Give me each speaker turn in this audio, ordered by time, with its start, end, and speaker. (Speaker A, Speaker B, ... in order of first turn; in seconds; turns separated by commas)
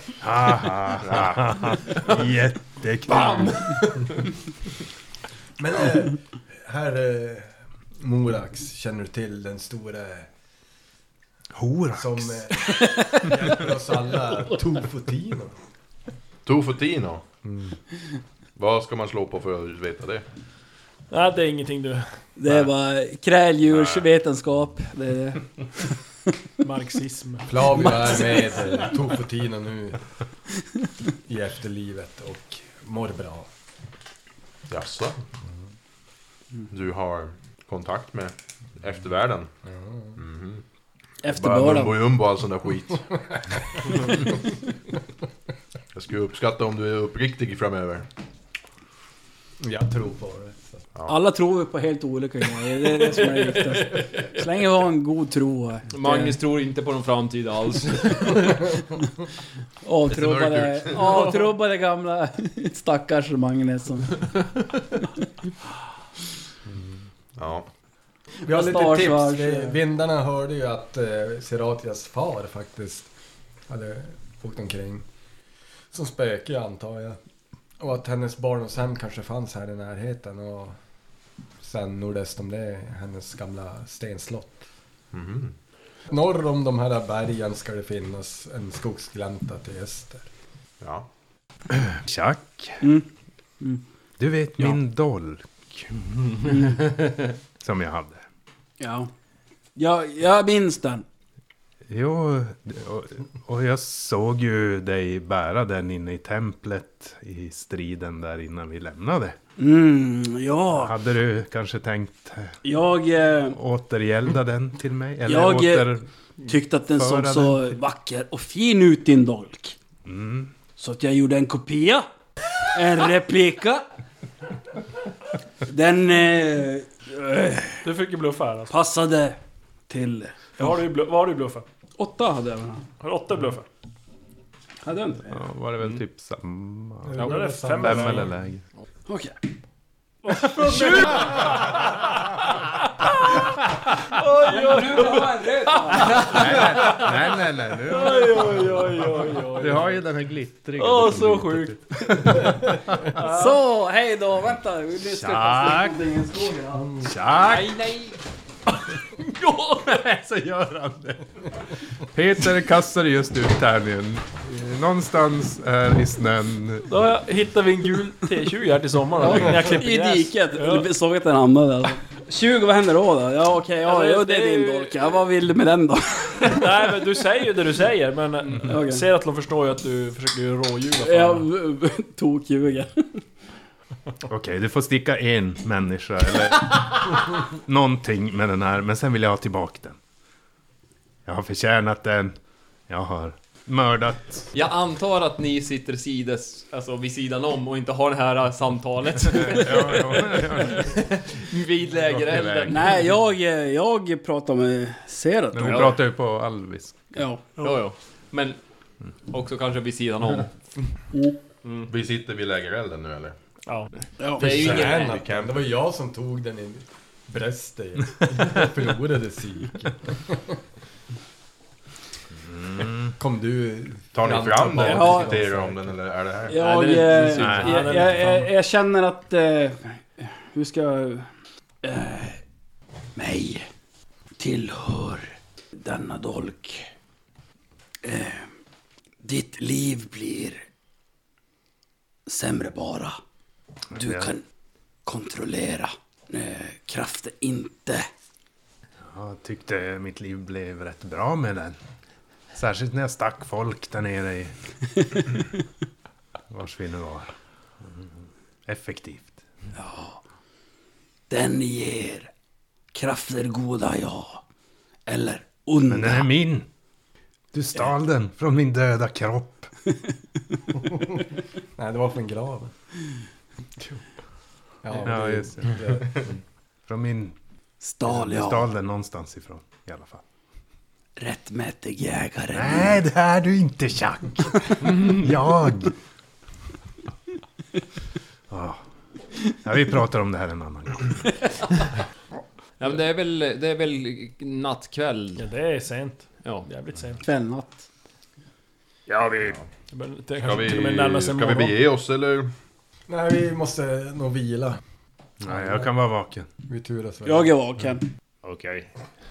Speaker A: 0.2-3.8, Speaker B: 0.9-1.4, Speaker C: 3.1-3.5, Speaker D: 5.6-10.3, Speaker A: 11.5-12.5, Speaker D: 12.0-15.6, Speaker B: 16.4-17.2, Speaker D: 17.4-17.8, Speaker B: 18.6-20.2, Speaker E: 21.1-22.1, Speaker F: 22.4-26.0, Speaker B: 23.7-24.1, Speaker E: 26.6-28.1, Speaker D: 27.5-30.0, Speaker F: 27.8-28.6, Speaker D: 31.3-33.5, Speaker B: 34.7-35.2, Speaker B: 36.7-39.5, Speaker D: 39.6-40.2, Speaker B: 40.1-40.6, Speaker F: 41.2-42.0, Speaker B: 41.3-44.2, Speaker B: 45.9-48.1, Speaker D: 49.6-50.8, Speaker F: 51.0-56.4, Speaker C: 55.9-58.7, Speaker F: 59.8-64.3, Speaker B: 60.1-61.3, Speaker B: 67.4-67.7, Speaker D: 68.4-73.1, Speaker F: 68.4-69.8, Speaker D: 73.7-75.0, Speaker D: 75.9-77.2, Speaker D: 77.8-80.8, Speaker D: 81.6-84.6, Speaker B: 85.1-85.5, Speaker D: 86.1-90.3, Speaker B: 90.8-91.1, Speaker A: 91.7-92.8, Speaker F: 92.8-93.1, Speaker A: 94.2-96.7, Speaker F: 96.5-96.8, Speaker A: 97.6-98.2, Speaker F: 98.8-99.1, Speaker F: 99.8-101.0, Speaker A: 101.9-109.4, Speaker F: 109.6-110.9, Speaker A: 110.7-112.6, Speaker F: 112.6-113.6, Speaker A: 113.5-116.1, Speaker F: 115.2-119.8, Speaker A: 116.9-117.8, Speaker A: 120.0-120.5, Speaker F: 120.8-122.0, Speaker F: 122.7-123.8, Speaker F: 125.6-127.8, Speaker E: 127.8-128.7, Speaker F: 128.7-129.4, Speaker F: 129.9-130.5, Speaker E: 130.6-131.6, Speaker F: 132.0-132.9, Speaker E: 133.0-133.7, Speaker F: 134.8-135.4, Speaker A: 135.3-138.6, Speaker D: 137.0-138.3, Speaker E: 137.2-138.3, Speaker F: 139.1-139.3, Speaker E: 140.2-142.6, Speaker F: 140.4-141.3, Speaker E: 144.1-147.1, Speaker F: 144.4-146.7, Speaker A: 146.1-153.2, Speaker E: 147.8-150.0, Speaker E: 150.7-151.8, Speaker E: 153.1-153.6, Speaker F: 153.2-156.9, Speaker A: 155.0-156.0, Speaker D: 156.8-157.1, Speaker A: 157.0-157.8, Speaker C: 157.4-158.1, Speaker A: 158.9-166.9, Speaker E: 166.8-170.9, Speaker F: 169.2-176.7, Speaker E: 173.8-175.2, Speaker E: 176.4-181.5, Speaker F: 178.6-179.1, Speaker F: 181.0-183.2, Speaker A: 184.2-190.0, Speaker A: 191.2-192.3, Speaker A: 192.9-194.5, Speaker C: 194.5-202.8, Speaker A: 199.3-201.1, Speaker A: 201.9-202.9, Speaker F: 202.7-205.9, Speaker A: 205.5-207.1, Speaker C: 205.6-205.9, Speaker F: 207.1-207.4, Speaker C: 207.6-208.6, Speaker C: 209.3-210.6, Speaker C: 211.6-211.9, Speaker B: 211.9-213.3, Speaker F: 214.2-214.4, Speaker C: 214.3-215.2, Speaker B: 214.4-215.5, Speaker D: 214.4-220.6, Speaker A: 222.4-223.1, Speaker D: 223.2-225.9, Speaker B: 224.1-226.6, Speaker F: 224.9-225.3, Speaker F: 226.5-231.3, Speaker C: 226.5-228.1, Speaker E: 227.1-228.5, Speaker A: 227.4-227.8, Speaker F: 231.8-232.4, Speaker F: 233.2-233.7, Speaker F: 234.4-236.9, Speaker F: 238.0-238.5, Speaker F: 239.2-240.6, Speaker F: 242.3-243.2, Speaker A: 243.9-244.3, Speaker F: 243.9-244.4, Speaker F: 245.1-248.1, Speaker A: 249.0-251.8, Speaker A: 252.5-254.5, Speaker A: 256.5-259.4, Speaker F: 259.7-260.2, Speaker F: 261.3-262.3, Speaker F: 262.9-264.4, Speaker F: 265.1-266.3, Speaker A: 265.9-266.7, Speaker A: 267.5-269.7, Speaker D: 270.8-271.2, Speaker D: 271.8-272.7, Speaker D: 274.8-276.3, Speaker A: 275.0-276.2, Speaker A: 276.9-277.4, Speaker F: 277.8-278.7, Speaker A: 278.0-280.2, Speaker F: 281.2-282.9, Speaker A: 282.5-285.9, Speaker A: 288.5-288.8, Speaker A: 289.5-291.2, Speaker C: 292.8-295.4, Speaker E: 295.4-297.2, Speaker F: 297.2-297.9, Speaker C: 299.1-299.6, Speaker E: 299.9-301.8, Speaker B: 300.4-302.5, Speaker D: 303.1-304.8, Speaker A: 305.4-306.5, Speaker D: 305.5-305.9, Speaker D: 306.7-307.5, Speaker F: 307.2-308.1, Speaker C: 308.4-308.9